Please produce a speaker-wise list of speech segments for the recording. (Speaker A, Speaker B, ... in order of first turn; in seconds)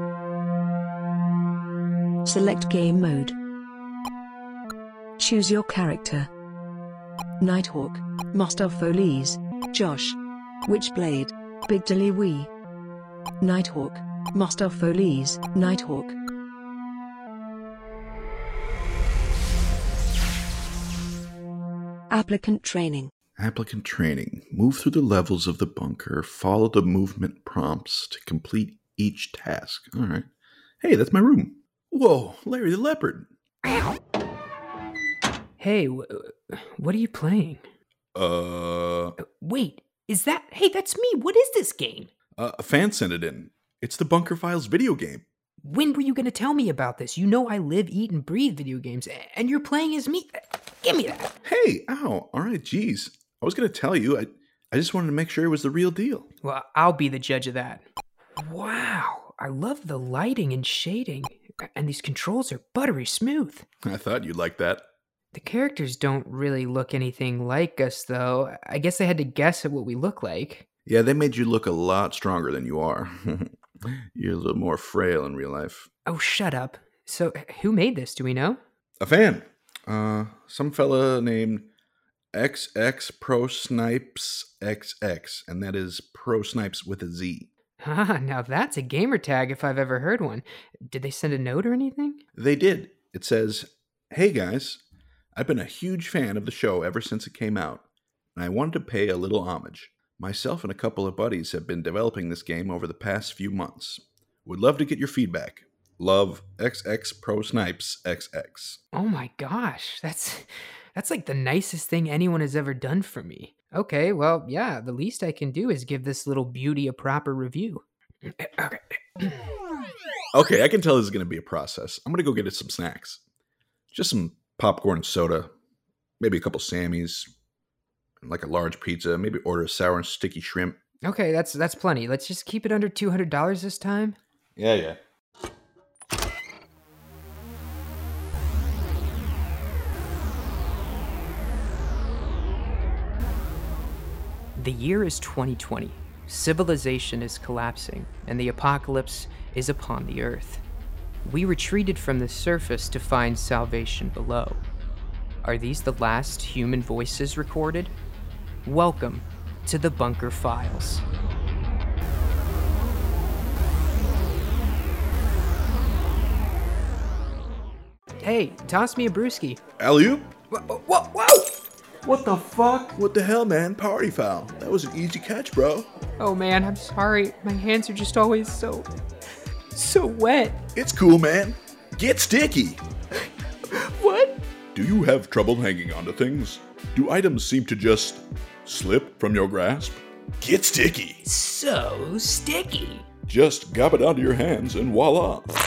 Speaker A: 2.2-3.4, 5.2-6.3, 7.4-12.5, 13.4-16.2, 22.1-23.1
Speaker B: 23.4-30.3, 30.8-33.3, 38.1-39.2, 42.4-45.2, 51.5-56.3, 63.8-64.8, 70.9-75.9, 79.0-81.7, 82.3-87.5, 92.3-94.8, 95.4-97.8, 98.4-108.8, 120.3-123.2, 123.9-125.5, 126.2-127.3, 128.2-130.8, 134.6-135.0, 169.8-170.3, 172.1-175.9, 180.8-182.8, 184.7-191.2, 193.3-195.5
Speaker C: 33.6-33.9, 35.6-37.6, 39.2-42.1, 45.6-51.3, 56.4-57.8, 58.4-63.7, 65.3-70.7, 76.1-78.6, 87.8-92.2, 108.9-119.5, 131.0-134.2, 144.6-150.6, 151.2-154.6, 155.4-157.9, 158.6-161.1, 168.2-169.6, 170.5-171.6, 176.2-178.9, 179.7-180.6, 183.7-184.4, 191.2-193.1